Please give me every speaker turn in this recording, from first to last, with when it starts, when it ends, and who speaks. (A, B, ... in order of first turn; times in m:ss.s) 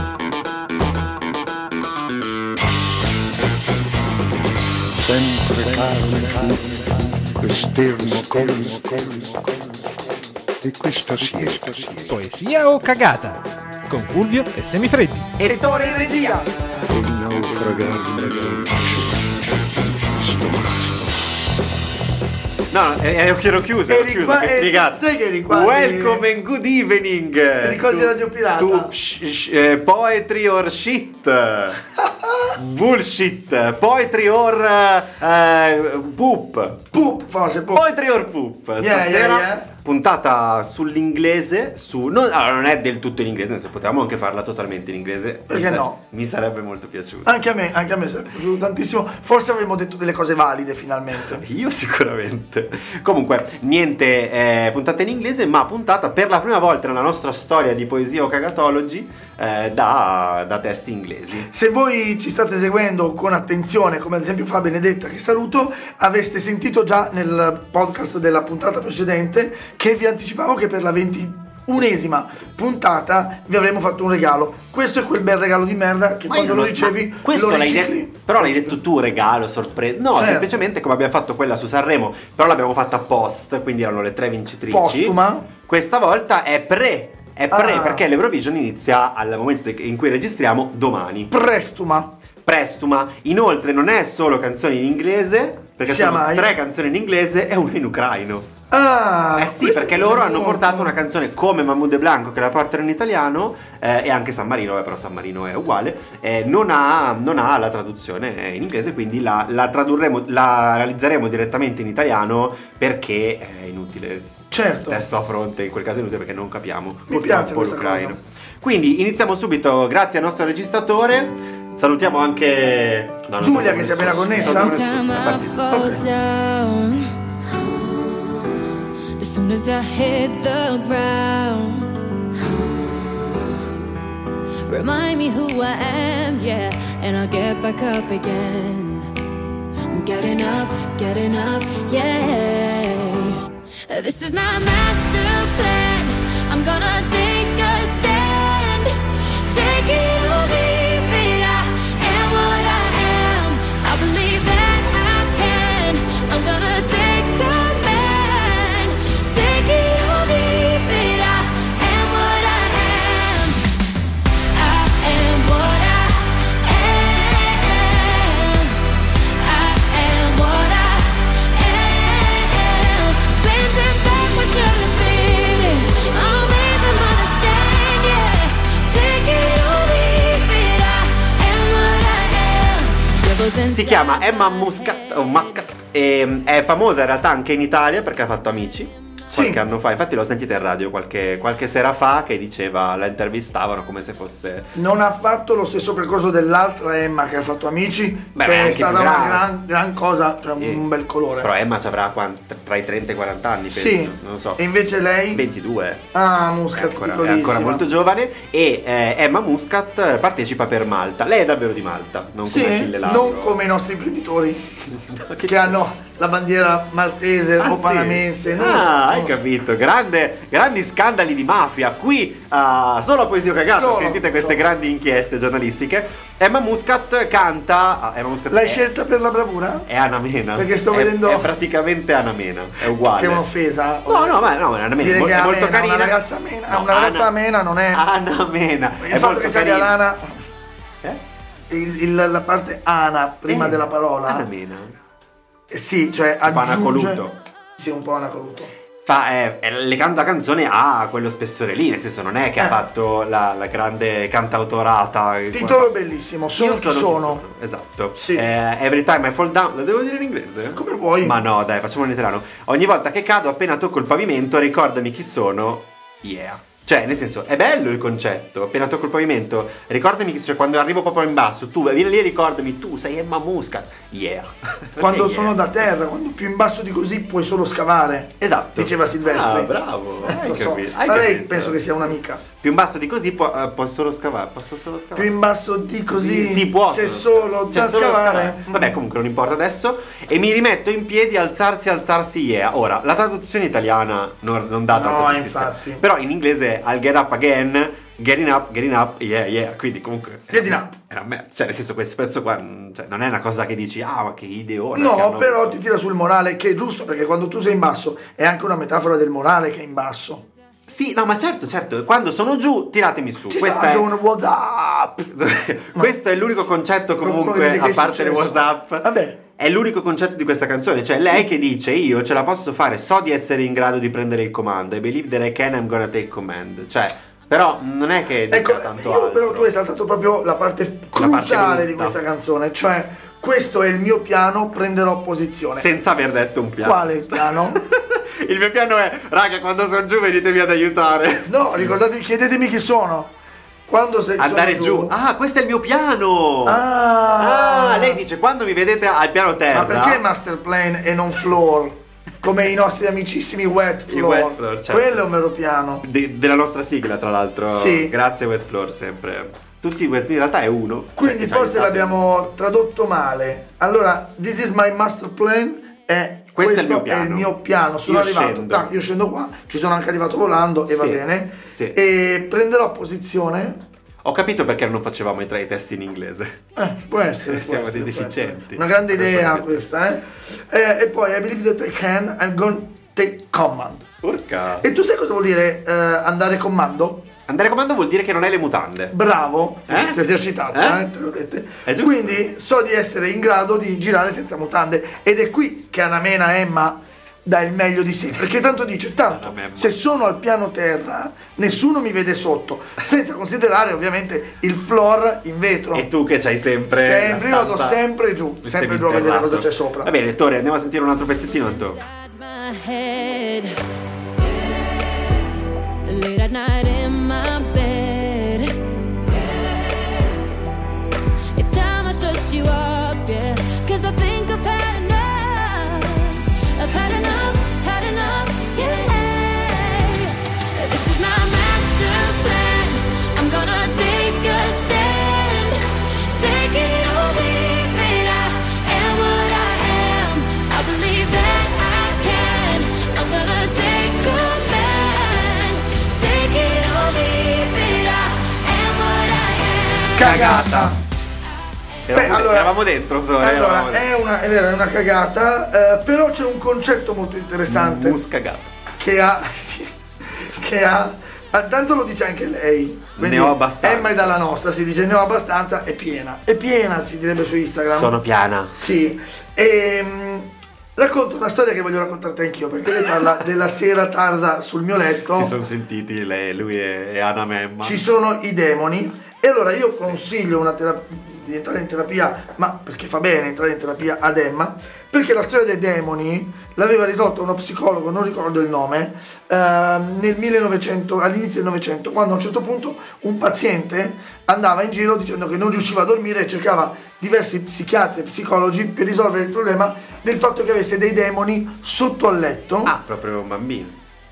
0:05.0-0:09.8 A
0:10.6-0:12.2 A
0:12.1-0:15.3 B
0:15.4-0:16.4 C
0:15.4-0:16.5 D
0:16.9-0:21.3 A
0:22.7-0:31.8 C
0:23.9-0:26.2 D
0:27.6-0:28.9 D
0:32.5-0:36.9 C
0:36.9-0:37.9 D
0:37.7-0:47.4 C
0:38.8-0:39.7 D
0:45.5-0:46.0 D
0:47.2-0:51.4 D
0:51.2-1:01.5 C
1:01.5-1:18.8 D
1:16.3-1:31.3 C
1:20.1-1:20.5 D
1:24.7-1:25.5 D
1:27.5-1:28.0 D
1:31.3-1:32.1 D
1:32.4-1:38.5 C
1:35.8-1:36.5 D
1:38.7-1:40.9 D
1:39.4-2:05.9 C
1:54.5-1:55.0 D
1:57.1-1:58.2 D
2:03.4-2:04.8 D
2:04.4-2:07.1 E
2:05.7-2:06.0 D
2:07.7-2:08.2 E
2:09.2-2:11.9 E
2:14.7-2:19.1 E
2:19.9-2:43.6 E
2:44.5-3:05.4 E
3:03.7-3:14.7 C
3:09.3-3:09.6 D
3:14.7-3:21.5 D
3:18.3-3:19.5 C
3:20.6-3:20.8 C
3:21.4-3:24.6 C
3:23.7-3:25.4 D
3:25.3-3:26.1 C
3:26.1-3:27.8 D
3:26.7-3:33.6 C
3:32.4-3:34.6 D
3:34.9-3:35.8 C
3:35.4-3:39.4 D
3:37.6-3:48.8 C
3:43.7-3:44.6 D
3:48.5-3:49.9 D
3:49.9-3:53.4 C
3:50.6-3:51.5 D
3:53.1-3:54.4 D
3:54.0-3:57.3 C
3:55.0-3:58.0 D
3:57.9-4:00.0 C
3:59.0-4:00.3 D
4:01.7-4:04.4 D
4:03.5-4:05.0 C
4:05.7-4:07.2 D
4:06.4-4:07.3 C
4:07.8-4:08.7 D
4:09.0-4:15.9 C
4:15.5-4:17.4 D
4:16.5-4:35.6 C
4:18.1-4:18.4 D
4:20.7-4:21.4 D
4:35.0-4:42.4 D
4:38.4-4:45.3 C
4:45.2-4:49.0 D
4:46.1-5:05.8 C
4:54.9-4:56.0 D
5:00.5-5:00.9 D
5:04.9-5:10.4 D
5:10.9-5:14.1 C
5:13.5-5:15.3 D
5:15.2-5:29.7 C
5:17.2-5:19.4 D
5:28.5-5:35.9 D
5:31.2-5:32.2 C
5:35.7-5:41.9 C
5:36.8-5:37.8 D
5:41.5-5:43.3 D
5:43.9-5:45.1 D
5:44.4-5:46.8 C
5:46.6-5:48.2 D
5:47.4-5:50.2 C
5:49.7-5:56.0 D
5:54.1-5:55.2 C
5:56.0-6:02.5 C
5:57.7-5:58.1 D
6:01.2-6:13.8 D
6:06.5-6:07.5 C
6:08.0-6:08.9 C
6:10.9-6:12.0 C
6:14.2-6:16.6 C
6:16.8-6:24.1 D
6:17.4-6:19.8 C
6:24.2-6:24.8 C
6:24.8-6:27.3 D
6:27.5-6:29.1 C
6:29.1-6:46.1 D
6:29.9-6:31.0 C
6:31.8-6:32.4 C
6:39.3-6:40.0 C
6:45.9-6:48.0 C
6:46.9-6:50.1 D
6:48.6-6:52.0 C
6:51.8-6:53.8 E
6:55.2-6:55.4 E
6:56.0-6:58.8 E
6:59.3-7:00.4 E
7:01.5-7:30.2 E
7:30.2-7:31.0 D
7:30.2-7:31.0 C
7:32.1-7:34.1 C
7:32.1-7:32.8 D
7:33.4-7:38.2 D
7:37.7-7:38.7 C
7:39.0-7:48.2 D
7:43.2-7:44.4 C
7:47.9-7:48.8 C
7:48.7-7:55.5 D
7:53.0-7:53.3 C
7:55.3-7:58.0 C
7:57.8-8:22.9 D
8:22.8-8:24.0 C